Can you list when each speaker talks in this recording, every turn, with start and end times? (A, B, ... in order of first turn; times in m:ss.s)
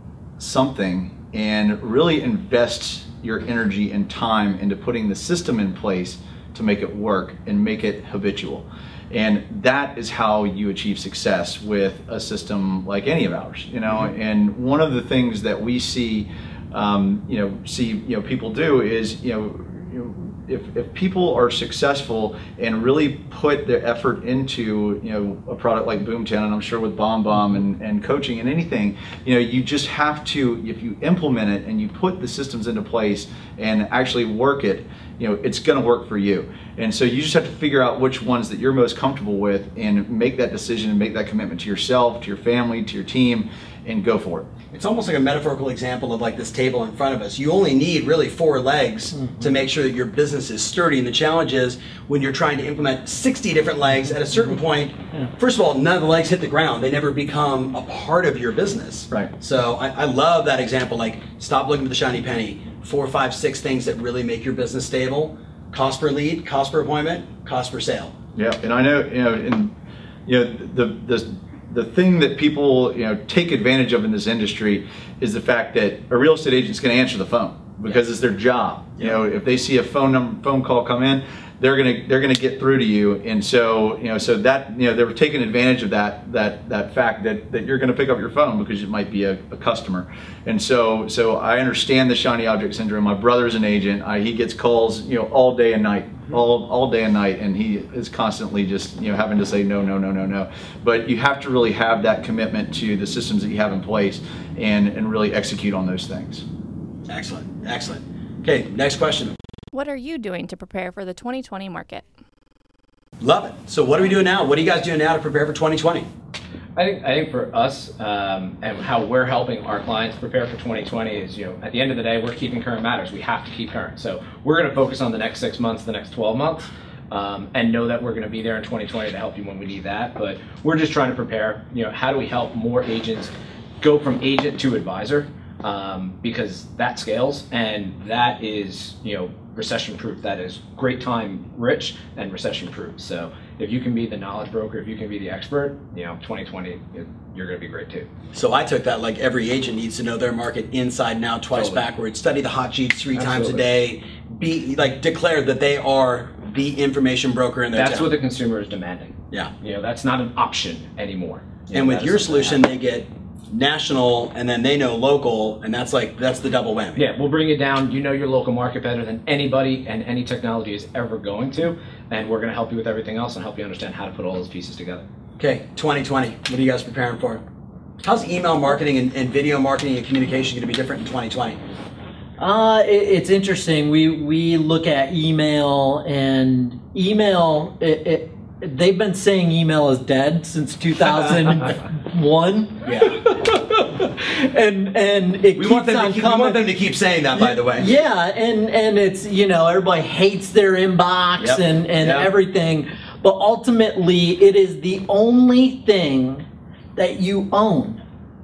0:00.4-0:44.5 A
0:44.7-1:08.1 B
1:08.4-1:09.7 A
1:10.3-1:46.4 A
1:47.1-1:49.4 B
1:49.7-1:52.1 C
1:53.2-1:56.1 B
1:56.8-2:13.3 D
2:13.8-2:28.1 D
2:28.3-2:38.1 B
2:31.5-2:31.8 D
2:33.1-2:33.8 D
2:37.7-2:42.6 D
2:41.7-2:47.0 B
2:47.0-2:55.0 D
2:55.4-2:57.4 B
2:58.0-3:01.6 B
3:02.4-3:16.6 E
3:12.9-3:13.2 B
3:15.6-3:17.9 B
3:17.4-3:28.0 E
3:21.4-3:22.3 B